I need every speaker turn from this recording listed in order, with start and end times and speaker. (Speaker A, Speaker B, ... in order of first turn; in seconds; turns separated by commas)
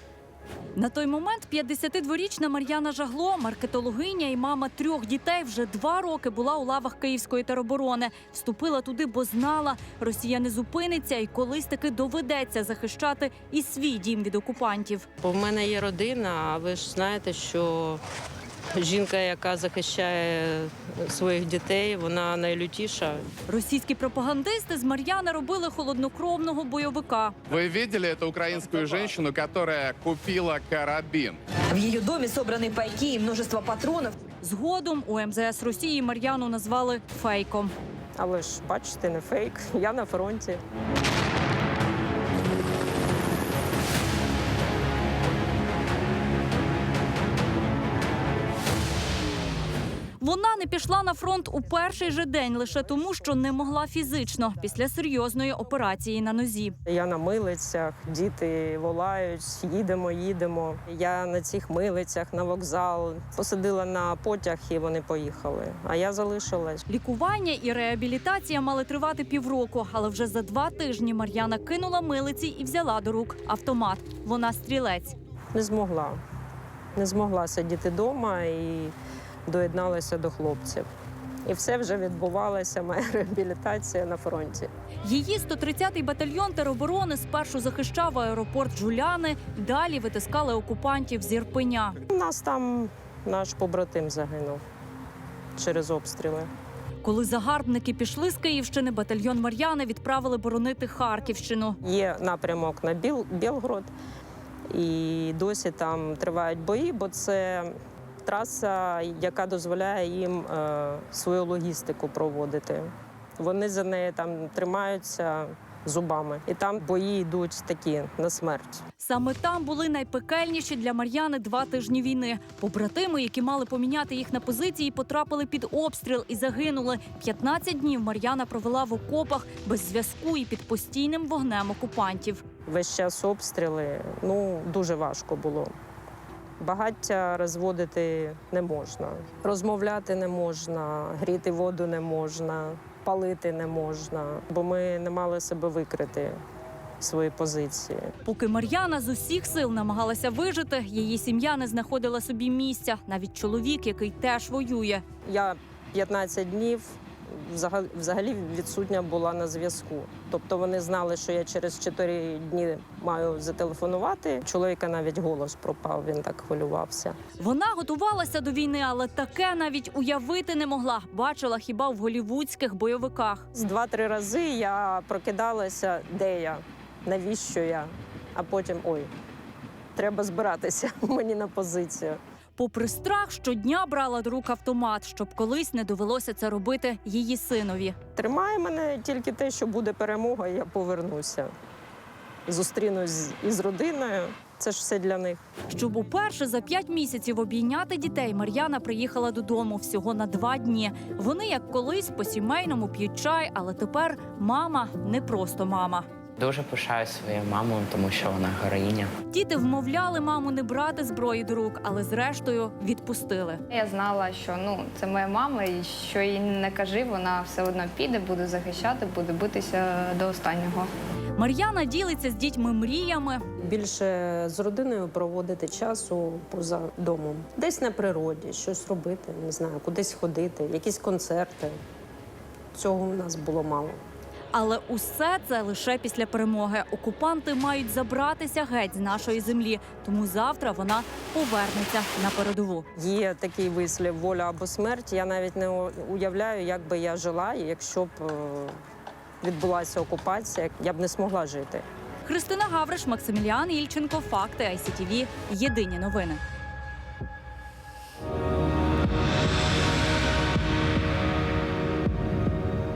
Speaker A: 0.8-15.1, Speaker B: 15.2-18.0, Speaker B: 18.8-23.2, Speaker A: 23.5-27.4, Speaker C: 27.5-31.4, Speaker D: 31.8-33.9, Speaker A: 34.4-37.7, Speaker B: 38.2-40.6, Speaker A: 50.2-56.8, Speaker B: 56.9-66.9, Speaker A: 66.9-75.2, Speaker B: 75.5-76.2, Speaker B: 77.0-78.9, Speaker B: 79.5-80.9, Speaker B: 81.5-84.7, Speaker A: 85.0-92.0, Speaker B: 92.0-94.6, Speaker B: 95.6-96.5, Speaker A: 97.0-101.8, Speaker B: 101.8-103.9, Speaker B: 104.7-118.8, Speaker A: 119.0-132.4, Speaker B: 132.7-135.7, Speaker B: 136.6-146.4, Speaker B: 147.0-148.1, Speaker A: 148.2-155.0, Speaker B: 155.3-167.2, Speaker A: 167.4-173.4, Speaker B: 173.5-179.1, Speaker B: 179.9-182.2, Speaker A: 182.6-188.0, Speaker B: 188.2-191.5, Speaker B: 192.5-195.4, Speaker A: 195.7-206.1, Speaker E: 206.4-209.1, Speaker A: 209.3-213.6, Speaker F: 213.7-220.9, Speaker A: 221.4-223.4, Speaker B: 223.6-231.8, Speaker B: 232.7-234.0, Speaker A: 234.5-242.9, Speaker B: 243.0-248.8, Speaker B: 249.4-251.8, Speaker A: 252.2-256.4